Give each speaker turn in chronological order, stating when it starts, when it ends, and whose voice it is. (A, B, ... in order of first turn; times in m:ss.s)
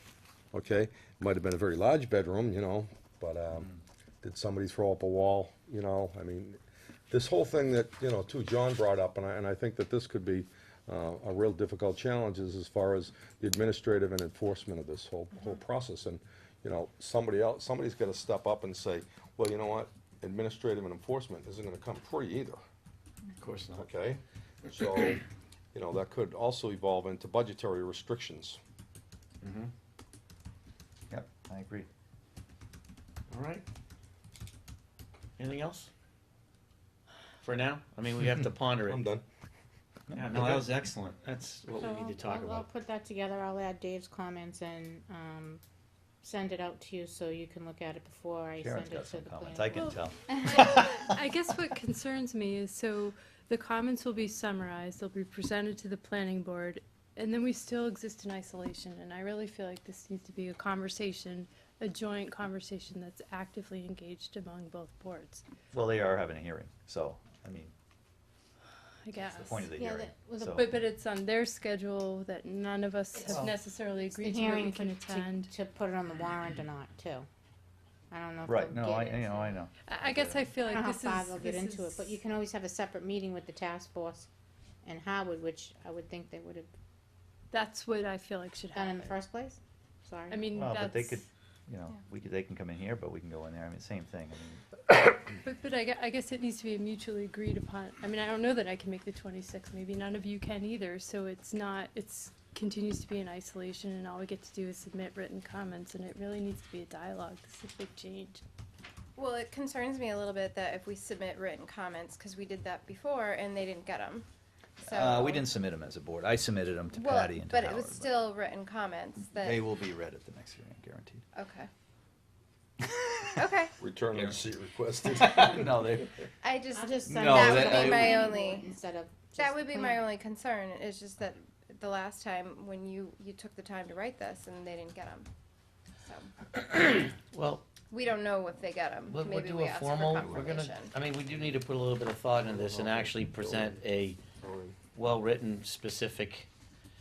0:00.5-0:06.6 A
0:07.1-0:22.6 A
0:23.4-0:23.9 B
0:23.8-0:25.2 A
0:25.7-0:28.6 A
0:29.4-0:29.7 B
0:31.1-0:31.9 C
0:33.3-0:33.6 B
0:35.4-0:35.9 B
0:37.4-0:39.0 B
0:38.9-0:39.2 A
0:40.1-0:40.6 C
0:40.1-0:42.7 B
0:41.8-0:45.6 D
0:46.2-0:49.9 D
0:48.6-0:51.1 C
0:50.5-1:05.4 E
1:05.7-1:07.7 C
1:09.0-1:09.7 E
1:09.2-1:10.8 C
1:09.8-1:10.6 D
1:10.6-1:15.5 E
1:13.3-1:13.5 C
1:14.1-1:17.3 D
1:18.1-1:19.6 D
1:18.5-1:20.5 C
1:19.8-1:22.2 E
1:20.6-1:24.3 D
1:24.8-1:26.7 D
1:27.5-1:29.1 E
1:28.7-1:30.6 D
1:30.3-1:31.2 E
1:30.6-1:34.7 C
1:35.4-1:48.4 E
1:49.2-1:54.3 F
1:54.8-1:55.4 F
1:54.8-1:58.3 C
1:56.9-1:59.6 F
1:59.4-2:01.3 C
2:01.4-2:01.7 F
2:03.4-2:03.8 F
2:03.8-2:05.8 A
2:04.1-2:04.5 C
2:05.0-2:06.1 C
2:06.4-2:08.7 F
2:06.7-2:10.1 D
2:07.0-2:08.2 C
2:09.4-2:15.3 F
2:16.0-2:16.3 F
2:16.8-2:17.7 B
2:17.9-2:21.0 F
2:19.1-2:24.2 B
2:22.4-2:23.8 A
2:24.4-2:24.8 A
2:25.0-2:26.5 B